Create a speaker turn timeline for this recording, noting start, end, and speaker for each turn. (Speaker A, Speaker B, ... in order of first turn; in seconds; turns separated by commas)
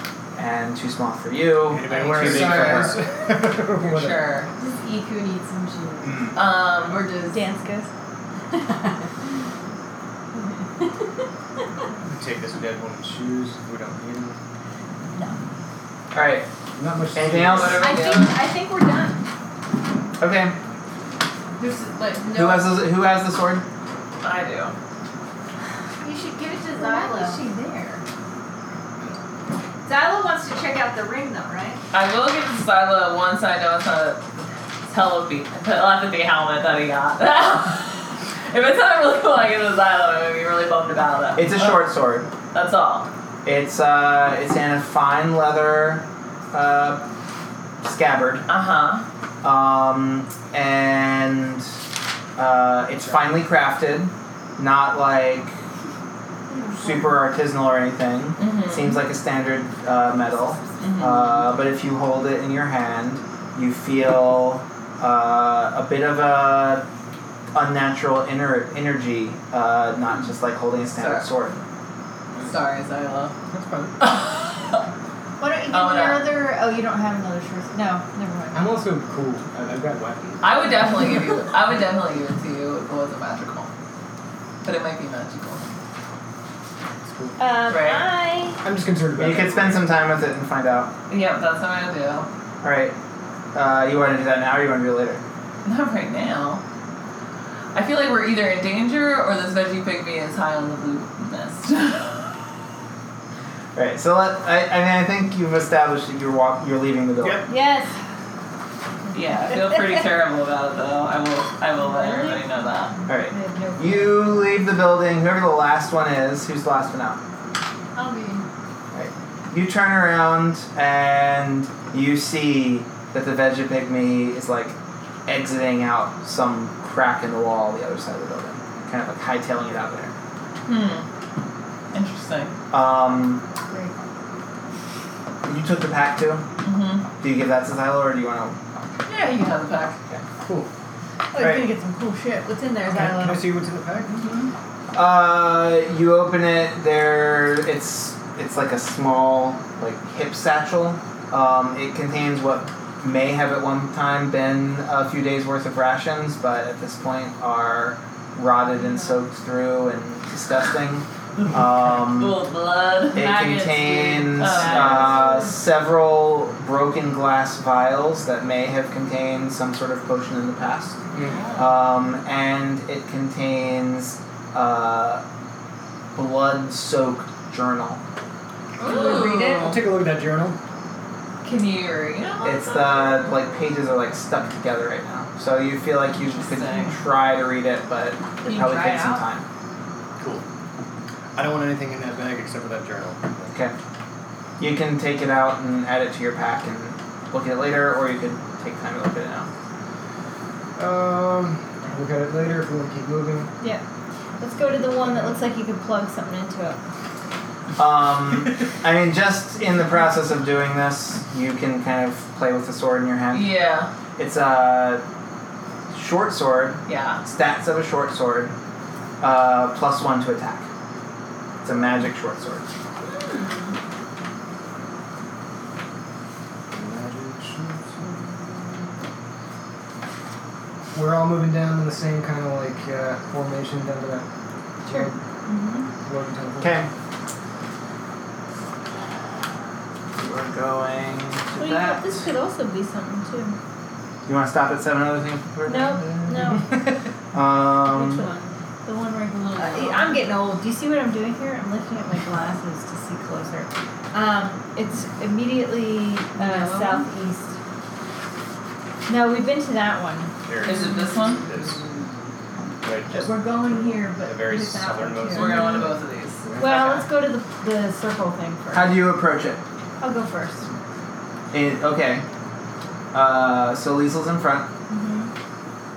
Speaker A: 0.4-3.0, Speaker B: 1.7-4.3, Speaker C: 1.9-3.0, Speaker C: 3.8-4.5, Speaker D: 4.6-7.5, Speaker B: 6.0-6.3, Speaker C: 6.3-7.0, Speaker E: 7.3-7.9, Speaker D: 8.5-9.1, Speaker D: 10.4-10.9, Speaker B: 12.1-14.4, Speaker A: 16.1-16.5, Speaker B: 16.8-17.8, Speaker A: 17.1-18.1, Speaker C: 17.5-18.4, Speaker D: 17.8-19.2, Speaker E: 18.2-19.0, Speaker A: 20.2-20.6, Speaker D: 21.6-22.7, Speaker A: 22.4-23.6, Speaker C: 24.2-24.8, Speaker E: 26.0-27.4, Speaker D: 26.7-28.0, Speaker E: 29.9-31.8, Speaker C: 31.9-34.3, Speaker C: 34.9-41.9, Speaker A: 41.4-42.3, Speaker C: 42.5-43.1, Speaker A: 43.4-47.0, Speaker A: 47.8-48.5, Speaker C: 48.5-49.0, Speaker A: 49.4-51.7, Speaker A: 52.4-55.6, Speaker E: 56.5-56.8, Speaker A: 56.8-66.8, Speaker C: 58.4-59.0, Speaker C: 60.8-61.2, Speaker A: 67.5-71.6, Speaker C: 71.0-71.3, Speaker C: 72.5-73.3, Speaker B: 73.5-73.9, Speaker C: 74.0-74.8, Speaker E: 75.4-78.8, Speaker C: 75.7-76.3, Speaker B: 78.5-80.4, Speaker C: 80.4-83.7, Speaker C: 84.6-85.7, Speaker B: 87.0-87.4, Speaker E: 87.4-88.6, Speaker C: 87.7-88.1, Speaker B: 88.6-89.9, Speaker A: 89.2-90.9, Speaker C: 91.1-92.3, Speaker A: 92.6-93.0, Speaker A: 93.5-95.2, Speaker C: 95.6-96.6, Speaker C: 97.7-102.4, Speaker A: 103.8-107.5, Speaker B: 107.2-107.5, Speaker E: 107.5-107.9, Speaker C: 109.1-112.9, Speaker E: 109.4-110.0, Speaker E: 111.8-114.5, Speaker A: 113.1-117.2, Speaker D: 118.0-118.5, Speaker A: 118.9-130.1, Speaker C: 130.7-131.1, Speaker C: 131.9-132.5, Speaker A: 132.7-133.4, Speaker A: 135.4-136.4, Speaker C: 136.6-137.1, Speaker A: 137.2-138.6, Speaker C: 139.1-140.0, Speaker B: 140.4-140.7, Speaker E: 141.3-143.6, Speaker A: 141.4-141.7, Speaker B: 142.9-144.1, Speaker E: 144.1-144.5, Speaker A: 144.9-162.4, Speaker C: 162.0-163.3, Speaker D: 163.1-165.4, Speaker A: 163.1-171.0, Speaker C: 164.3-165.4, Speaker B: 171.1-171.4, Speaker A: 171.6-175.2, Speaker A: 176.1-178.0, Speaker D: 178.8-179.6, Speaker E: 178.8-179.8, Speaker C: 178.8-179.7, Speaker B: 179.6-180.6, Speaker C: 181.4-183.4, Speaker A: 182.4-189.5, Speaker C: 186.1-186.9, Speaker E: 188.4-189.2, Speaker B: 190.2-190.4, Speaker B: 191.3-193.5, Speaker A: 194.6-199.5, Speaker B: 200.8-203.5, Speaker E: 204.4-206.8, Speaker A: 207.8-213.5, Speaker C: 213.3-213.9, Speaker A: 214.2-215.0, Speaker A: 215.9-218.6, Speaker C: 216.9-217.2, Speaker A: 219.2-220.7, Speaker A: 221.6-222.7, Speaker B: 226.7-228.9, Speaker B: 230.9-234.3, Speaker B: 234.9-235.2, Speaker E: 234.9-235.9, Speaker B: 236.0-236.8, Speaker A: 236.6-236.9, Speaker A: 240.1-242.2, Speaker E: 241.6-243.6, Speaker A: 244.3-246.6, Speaker E: 245.7-246.7, Speaker A: 247.3-248.3, Speaker E: 247.9-257.6, Speaker D: 248.2-248.5, Speaker D: 249.3-250.3, Speaker D: 256.5-257.0, Speaker C: 256.5-256.9, Speaker E: 259.1-260.9, Speaker F: 260.5-261.9, Speaker C: 260.6-261.4, Speaker B: 261.5-261.8, Speaker F: 262.9-265.7, Speaker E: 263.1-265.9, Speaker B: 264.4-265.5, Speaker C: 265.3-267.0, Speaker E: 266.6-269.0, Speaker A: 268.7-269.6, Speaker E: 270.0-270.7, Speaker A: 271.5-272.2, Speaker A: 273.1-274.7, Speaker E: 274.9-275.3